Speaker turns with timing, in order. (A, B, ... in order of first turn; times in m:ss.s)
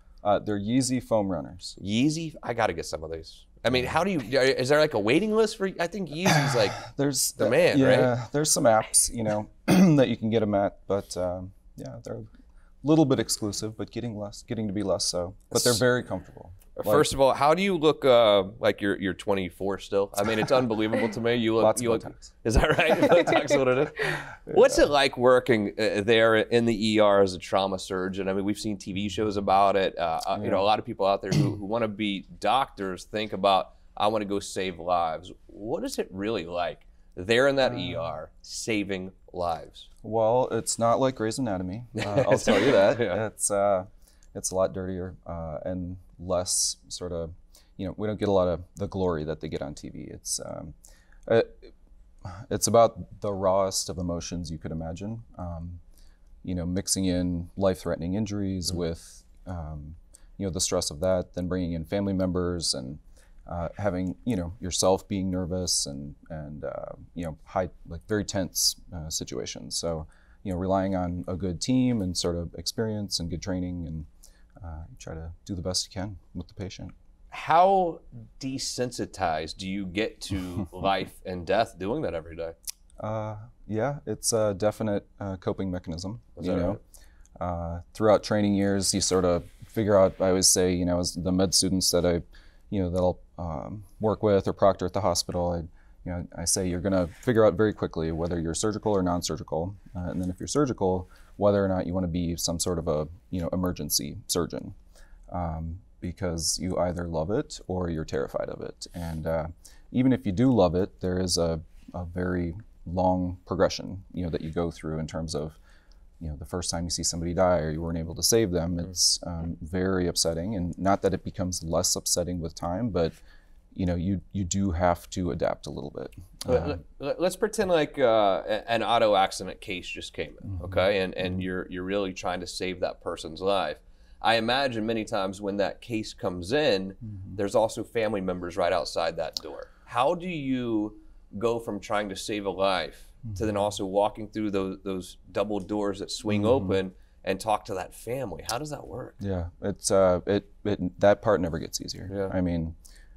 0:00.2-0:01.8 A
0:01.8-0:06.8 B
0:06.2-0:12.3 A
0:07.4-0:08.1 B
0:12.8-0:17.1 A
0:15.5-0:15.8 B
0:16.8-0:39.9 B
0:21.6-0:22.3 A
0:23.0-0:23.3 A
0:24.5-0:24.9 A
0:30.3-0:30.7 A
0:37.6-0:38.1 A
0:40.0-0:50.7 A
0:42.0-0:43.2 B
0:51.2-0:51.7 A
0:52.2-0:55.8 A
0:56.4-1:14.1 A
1:14.6-1:16.9 A
1:17.3-1:22.5 B
1:23.0-1:26.8 A
1:26.4-1:26.8 B
1:27.4-1:44.7 A
1:45.3-1:55.6 A
1:56.2-2:03.2 A
2:03.7-2:06.8 A
2:06.4-2:29.2 B
2:10.4-2:11.4 A
2:17.1-2:17.4 A
2:26.3-2:26.8 A
2:29.2-2:32.7 A
2:32.1-2:32.3 B